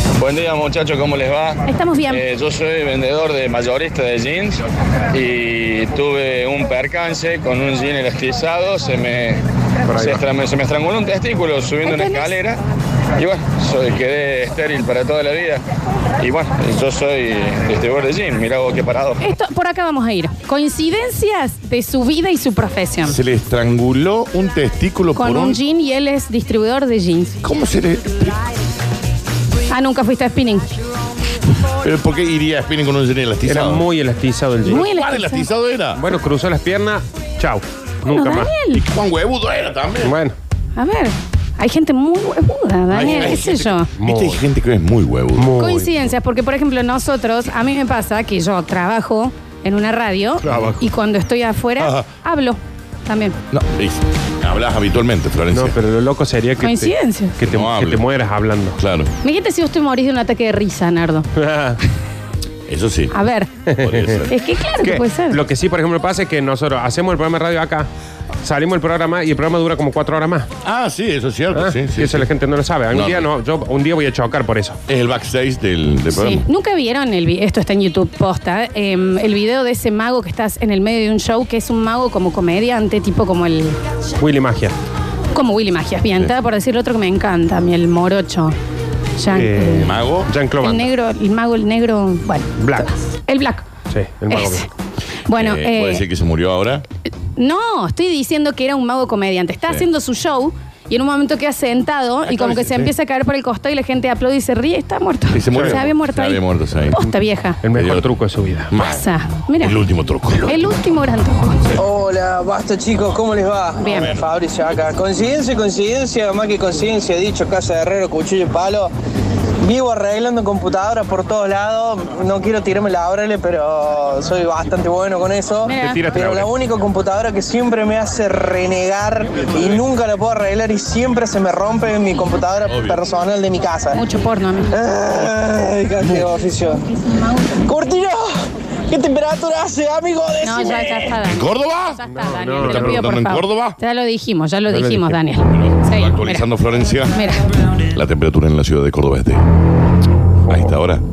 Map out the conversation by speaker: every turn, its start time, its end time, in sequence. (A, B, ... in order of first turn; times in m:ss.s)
0:00.2-0:09.4 A
0:01.7-0:02.2 B
0:09.9-0:10.2 C
0:10.0-0:12.6 A
0:11.8-0:12.4 B
0:13.2-0:15.6 A
0:16.2-0:19.2 A
0:19.2-0:23.2 B
0:23.0-0:25.6 D
0:25.2-0:27.4 B
0:27.4-0:28.4 D
0:29.7-0:30.7 B
0:31.8-0:33.9 D
0:33.4-0:34.8 C
0:34.7-0:36.0 D
0:34.7-0:35.5 B
0:36.0-0:38.5 C
0:38.1-0:38.8 B
0:38.7-0:40.2 D
0:40.0-0:40.4 C
0:40.8-0:43.9 B
0:42.9-0:45.5 D
0:43.0-0:43.4 C
0:44.0-0:44.4 C
0:45.4-0:45.9 C
0:45.6-0:53.4 B
0:50.4-0:50.8 D
0:51.8-0:52.1 D
0:53.5-0:55.8 D
0:55.5-0:58.8 C
0:56.6-0:57.3 B
0:57.4-0:58.0 D
0:58.8-0:59.1 D
0:59.2-1:01.3 B
1:01.4-1:01.8 C
1:02.7-1:03.1 D
1:03.1-1:03.5 B
1:03.7-1:04.2 C
1:03.8-1:04.3 D
1:04.3-1:05.4 B
1:04.8-1:07.9 C
1:08.4-1:10.5 C
1:10.6-1:12.3 D
1:11.5-1:14.8 C
1:12.9-1:13.3 D
1:14.9-1:16.4 D
1:16.1-1:23.8 B
1:24.2-1:24.8 C
1:25.3-1:28.6 B
1:29.2-1:29.9 B
1:29.3-1:30.9 C
1:29.8-1:30.3 D
1:30.6-1:33.7 B
1:32.6-1:32.9 C
1:33.9-1:34.7 C
1:34.3-1:34.7 B
1:35.3-1:36.0 B
1:35.3-1:36.8 D
1:37.4-1:47.6 B
1:42.3-1:42.9 D
1:45.3-1:47.0 D
1:45.5-1:45.8 C
1:47.0-1:48.7 C
1:47.7-1:48.1 D
1:48.7-1:49.0 D
1:48.8-1:49.8 B
1:49.6-1:50.7 D
1:50.5-1:51.7 B
1:51.8-1:58.9 E
1:53.8-1:54.1 B
1:53.9-1:54.3 D
1:59.6-2:14.0 E
2:05.6-2:06.0 B
2:05.8-2:06.5 C
2:09.4-2:09.8 D
2:12.7-2:13.0 D
2:13.9-2:14.7 B
2:14.7-2:16.9 E
2:16.0-2:16.3 D
2:17.5-2:21.1 E
2:20.4-2:26.5 B
2:21.2-2:22.0 D
2:22.1-2:23.0 C
2:22.6-2:23.8 D
2:24.7-2:25.2 C
2:25.5-2:27.2 D
2:27.1-2:27.4 B
2:27.9-2:29.4 D
2:30.5-2:30.8 C
2:30.5-2:31.0 D